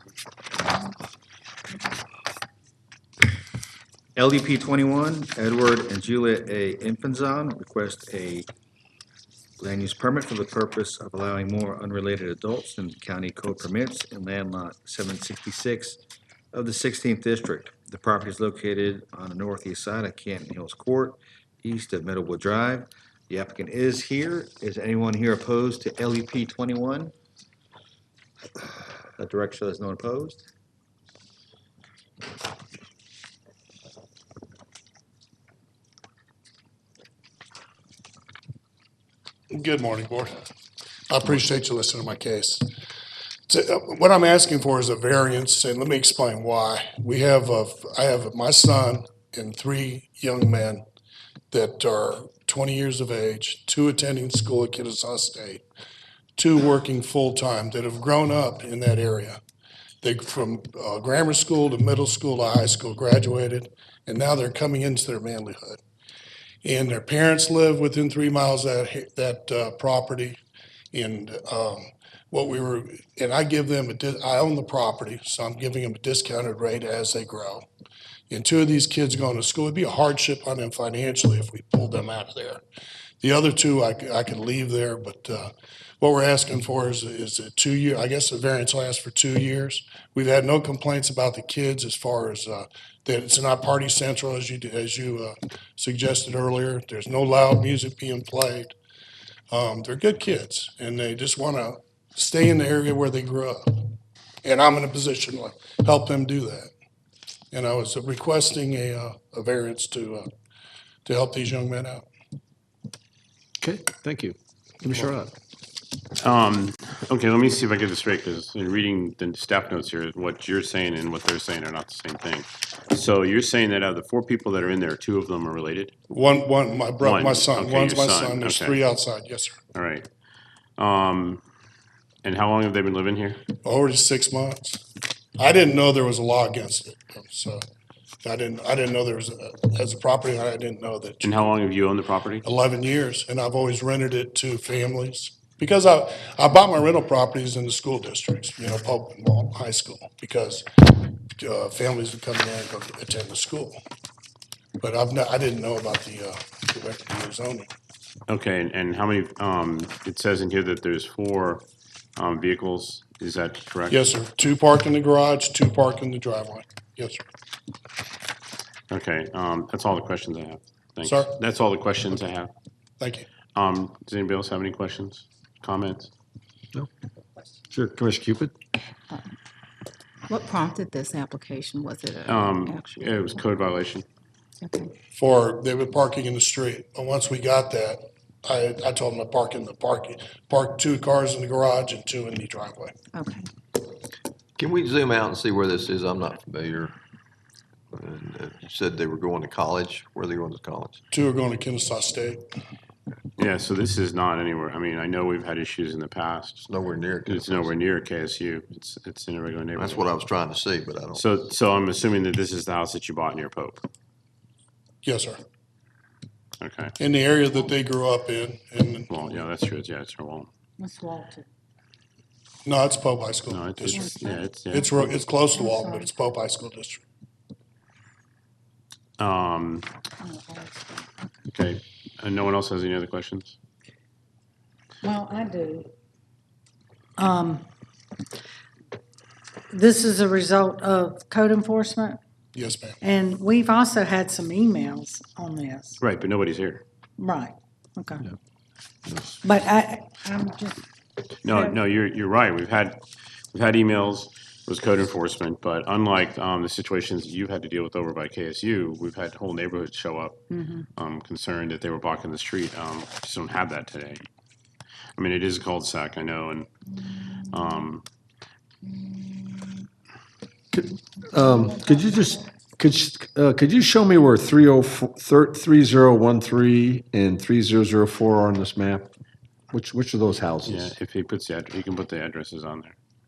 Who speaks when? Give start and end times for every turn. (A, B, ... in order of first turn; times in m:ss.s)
0:04.2-0:08.5 A
0:09.6-0:16.0 A
0:16.5-0:27.1 A
0:29.2-0:30.4 A
0:39.5-0:40.3 B
0:41.1-0:42.6 B
0:43.5-0:50.8 B
0:51.5-0:55.6 B
0:56.4-0:59.4 B
1:00.0-1:05.8 B
1:06.6-1:10.4 B
1:10.9-1:17.7 B
1:18.3-1:22.6 B
1:23.2-1:38.7 B
1:39.5-1:43.9 B
1:44.4-1:46.7 B
1:47.5-1:50.3 B
1:51.0-1:52.0 B
1:53.6-1:55.3 C
1:56.2-2:05.9 D
2:06.1-2:09.6 B
2:07.0-2:08.8 D
2:09.7-2:10.1 D
2:10.8-2:11.4 D
2:12.2-2:13.4 D
2:13.6-2:14.8 B
2:15.4-2:17.6 B
2:18.2-2:21.5 B
2:21.2-2:22.5 D
2:22.4-2:33.8 B
2:34.8-2:37.7 B
2:38.3-2:41.6 D
2:42.2-2:44.0 D
2:43.9-2:47.2 B
2:48.9-2:52.5 D
2:51.0-2:51.3 B
2:53.0-2:53.2 B
2:53.6-2:56.1 D
2:57.7-2:58.5 C
3:00.3-3:03.3 E
3:02.2-3:04.1 D
3:04.6-3:04.9 E
3:05.2-3:13.0 B
3:13.1-3:13.5 E
3:14.6-3:17.0 F
3:17.9-3:21.0 F
3:21.1-3:22.4 B
3:23.4-3:26.6 D
3:26.6-3:27.8 F
3:27.2-3:30.1 D
3:29.8-3:31.2 F
3:31.1-3:33.8 D
3:35.0-3:35.4 B
3:36.6-3:37.0 D
3:37.0-3:39.4 B
3:39.1-3:40.5 D
3:40.8-3:41.5 G
3:42.6-3:44.1 B
3:43.5-3:44.8 D
3:43.9-3:46.1 G
3:44.7-3:47.0 B
3:49.2-3:49.9 D
3:50.2-3:51.5 G
3:51.5-3:53.6 D
3:55.0-3:55.9 G
3:57.2-3:57.6 G
3:59.7-4:02.2 G
4:02.6-4:03.0 B
4:03.0-4:06.0 G
4:06.0-4:06.8 D
4:07.2-4:08.3 G
4:09.4-4:10.8 G
4:11.4-4:13.0 D
4:11.5-4:11.8 G
4:13.5-4:20.4 D
4:20.5-4:20.8 G
4:20.9-4:24.2 D
4:25.2-4:26.7 D
4:27.4-4:28.0 D
4:28.9-4:29.6 G
4:30.7-4:39.1 C
4:31.7-4:32.0 G
4:39.7-4:40.9 C
4:40.6-4:42.9 D